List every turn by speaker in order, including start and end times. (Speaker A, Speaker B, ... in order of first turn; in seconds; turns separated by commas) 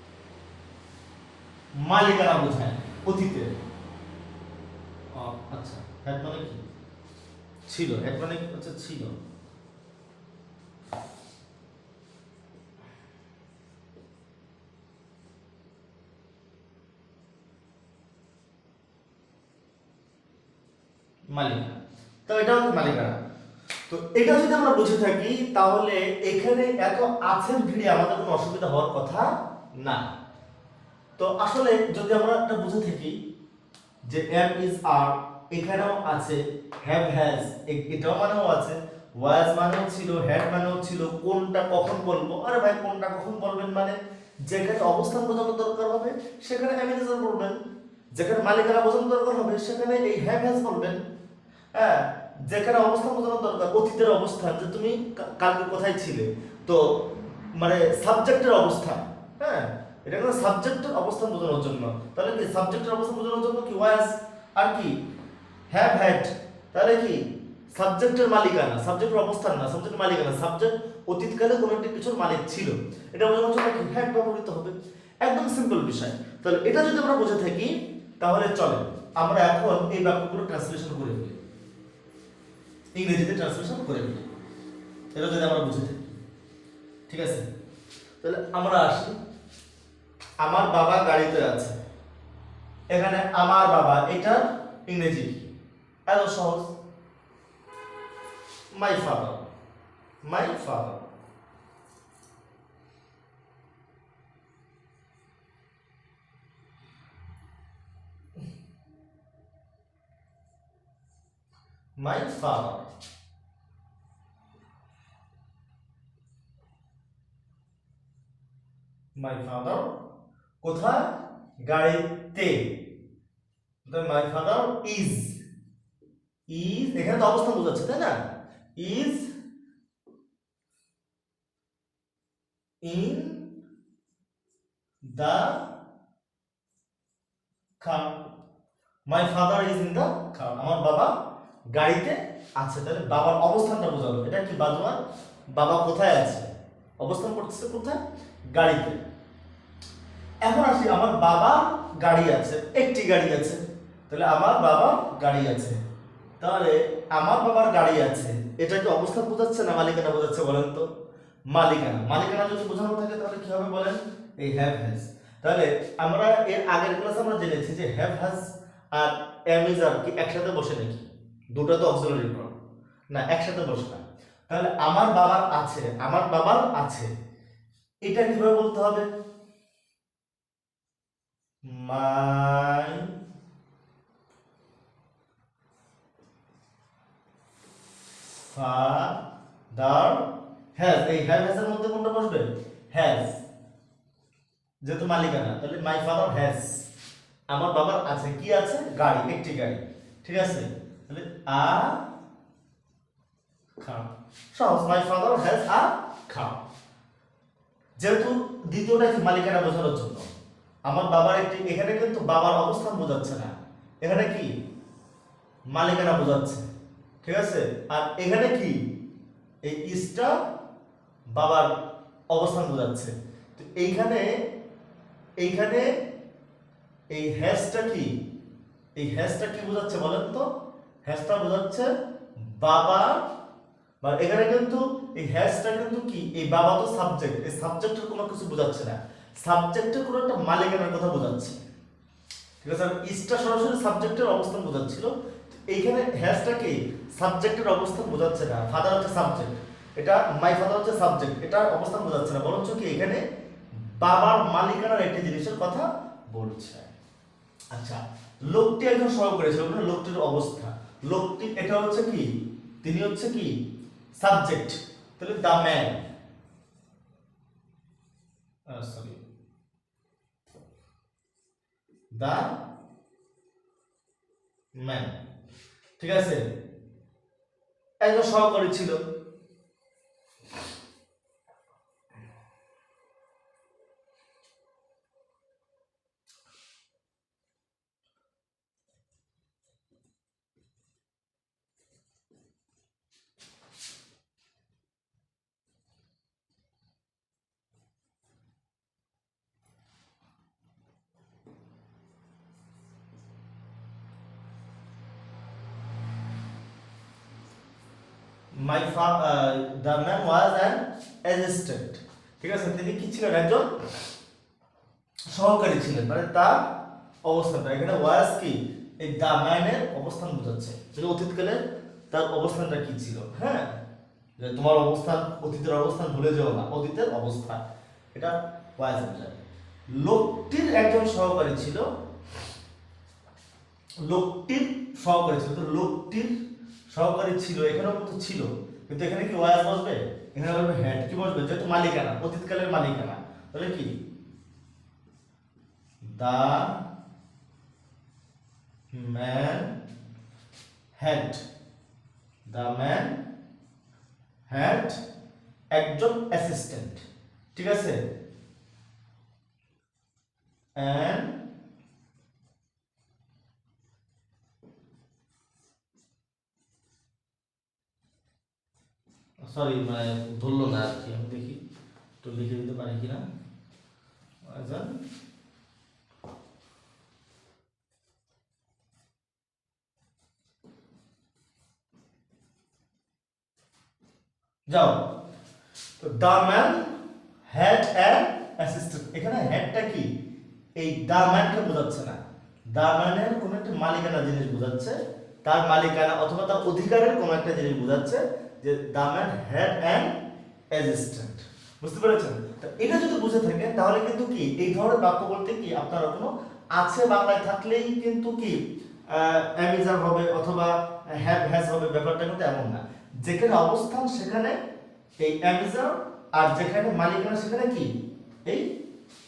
Speaker A: 1.8-3.5, Speaker A: 5.1-6.6, Speaker A: 7.7-9.2, Speaker A: 21.3-21.8, Speaker A: 22.3-23.2, Speaker A: 23.9-30.1, Speaker A: 31.2-33.1, Speaker A: 34.0-47.6, Speaker A: 48.1-51.0, Speaker A: 51.7-64.9, Speaker A: 65.7-81.4, Speaker A: 82.9-84.3, Speaker A: 85.1-86.1, Speaker A: 87.1-87.4, Speaker A: 88.2-89.2, Speaker A: 90.4-91.8, Speaker A: 92.9-95.5, Speaker A: 96.1-96.7, Speaker A: 98.7-99.5, Speaker A: 100.2-101.1, Speaker A: 112.0-112.9, Speaker A: 119.2-119.9, Speaker A: 120.6-122.8, Speaker A: 123.8-125.4, Speaker A: 126.5-128.2, Speaker A: 128.8-129.3, Speaker A: 132.8-133.4, Speaker A: 135.1-135.6, Speaker A: 137.8-138.2, Speaker A: 139.1-141.1, Speaker A: 141.7-145.0, Speaker A: 145.5-148.0, Speaker A: 148.5-149.0, Speaker A: 150.4-155.8, Speaker A: 156.4-160.8, Speaker A: 161.5-172.5, Speaker A: 173.1-177.1, Speaker A: 178.1-179.1, Speaker A: 181.7-183.1, Speaker A: 188.4-189.2, Speaker A: 189.7-193.4, Speaker A: 194.8-196.8, Speaker A: 197.5-202.0, Speaker A: 203.8-206.6, Speaker A: 208.0-210.3, Speaker A: 210.8-214.5, Speaker A: 215.7-216.7, Speaker A: 217.2-218.8, Speaker A: 219.6-220.3, Speaker A: 221.3-221.7, Speaker A: 222.3-224.3, Speaker A: 225.4-225.9, Speaker A: 227.1-228.1, Speaker A: 229.0-230.5, Speaker A: 231.0-231.9, Speaker A: 232.4-233.2, Speaker A: 234.0-241.6, Speaker A: 242.6-253.2, Speaker A: 253.8-256.9, Speaker A: 257.7-262.3, Speaker A: 262.8-263.5, Speaker A: 264.2-266.0, Speaker A: 268.7-269.2, Speaker A: 272.1-272.5, Speaker A: 274.8-275.1, Speaker A: 276.0-276.4, Speaker A: 278.0-279.0, Speaker A: 308.5-313.7, Speaker A: 315.3-316.7, Speaker A: 317.2-323.7, Speaker A: 324.4-327.6, Speaker A: 328.1-329.4, Speaker A: 329.9-331.9, Speaker A: 334.0-336.3, Speaker A: 336.9-343.9, Speaker A: 346.0-346.8, Speaker A: 348.9-349.8, Speaker A: 350.9-351.4, Speaker A: 352.5-353.2, Speaker A: 354.5-355.0, Speaker A: 355.7-357.0, Speaker A: 357.5-358.0, Speaker A: 360.8-361.4, Speaker A: 369.4-371.6, Speaker A: 372.2-373.2, Speaker A: 374.4-374.9, Speaker A: 384.7-385.0, Speaker A: 386.0-386.9, Speaker A: 387.5-390.1, Speaker A: 390.8-392.2, Speaker A: 392.7-400.1, Speaker A: 400.7-414.6, Speaker A: 415.2-418.7